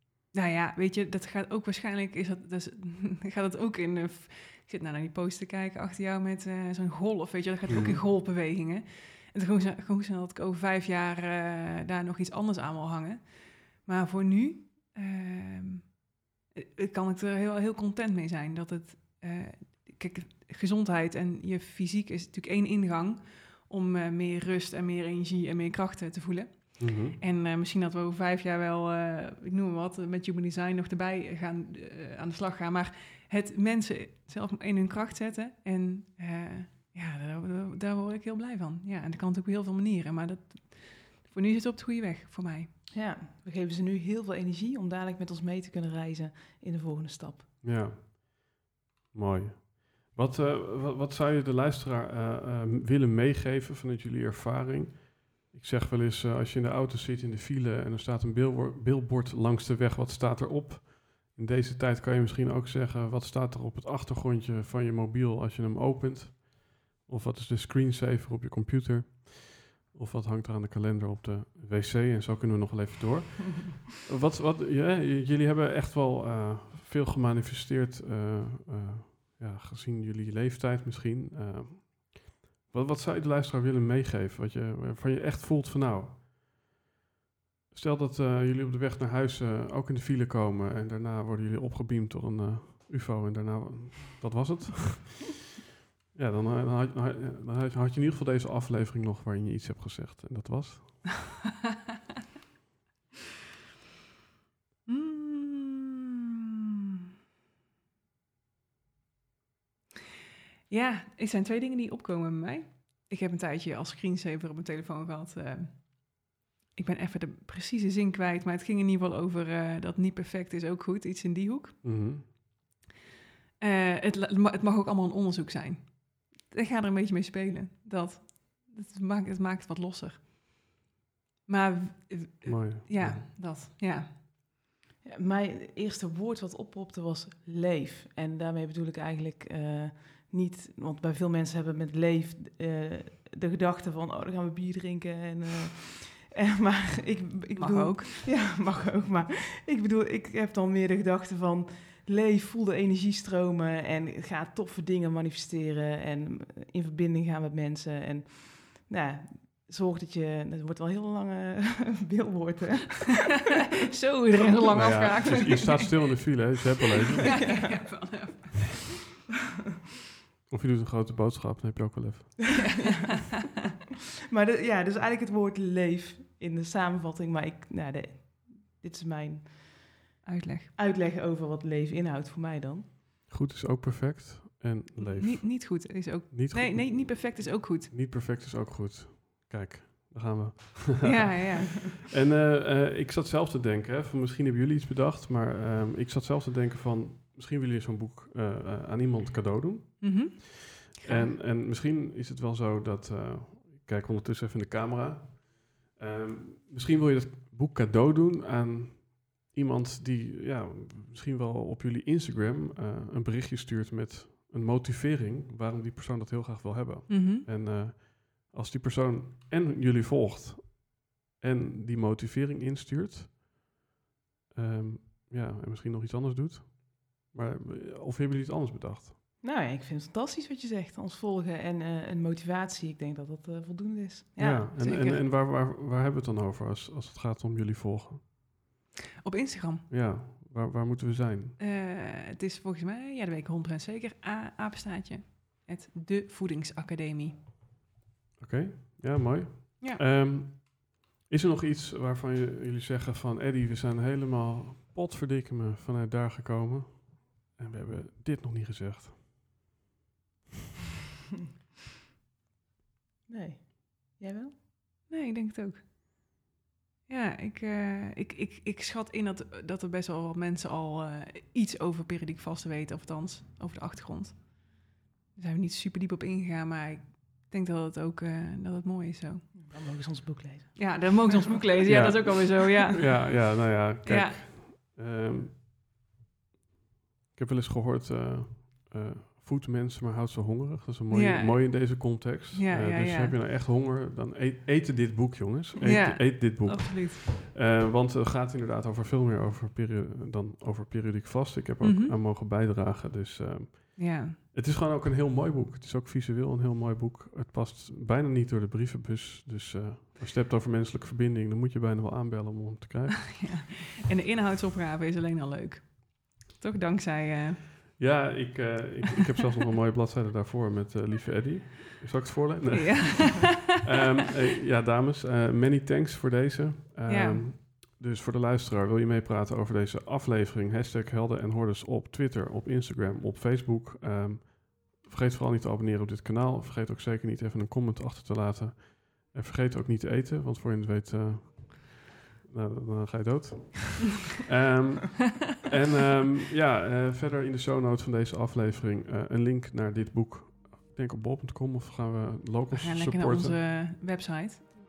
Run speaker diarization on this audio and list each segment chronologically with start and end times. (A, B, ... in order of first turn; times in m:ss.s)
0:00.3-0:42.7 A
0:07.7-0:08.0 B
0:26.8-0:27.2 B
0:42.9-0:47.5 C
0:47.6-1:26.6 B
1:27.7-1:35.4 B
1:36.2-1:41.1 B
1:44.9-1:46.3 A
1:50.7-2:01.8 A
2:01.8-2:02.3 B
2:03.6-2:10.8 A
2:11.5-2:14.2 A
2:12.4-2:13.2 B
2:15.1-2:43.2 C
2:27.6-2:28.3 A
2:43.8-2:46.4 A
2:44.7-2:47.6 B
2:47.0-2:49.0 A
2:50.5-2:52.7 B
2:52.6-2:53.5 A
2:54.3-3:00.0 C
3:00.2-3:00.7 A
3:00.8-3:02.9 C
3:03.3-3:11.6 B
3:05.0-3:07.9 A
3:11.0-3:11.9 A
3:12.1-3:20.5 B
3:20.0-3:21.3 A
3:21.0-3:43.5 B
3:37.1-3:37.5 A
3:44.5-3:49.1 B
3:49.4-3:54.7 C
3:54.4-3:58.2 B
3:54.8-3:55.2 A
3:59.2-3:59.9 A
3:59.9-4:01.6 B
4:01.6-4:07.4 A
4:08.4-4:19.2 B
4:23.3-4:24.5 C
4:25.1-4:25.9 A
4:27.1-4:39.7 A
4:39.5-4:41.5 C
4:40.8-4:43.4 A
4:41.8-4:45.6 B
4:44.0-4:44.4 A
4:47.4-5:13.6 B
4:51.1-4:53.3 A
4:55.8-4:57.3 A
5:01.8-5:02.2 A
5:04.0-5:04.4 A
5:13.4-5:17.6 A
5:18.0-5:53.6 B
5:22.7-5:23.6 A
5:27.1-5:27.5 A
5:52.7-5:54.6 A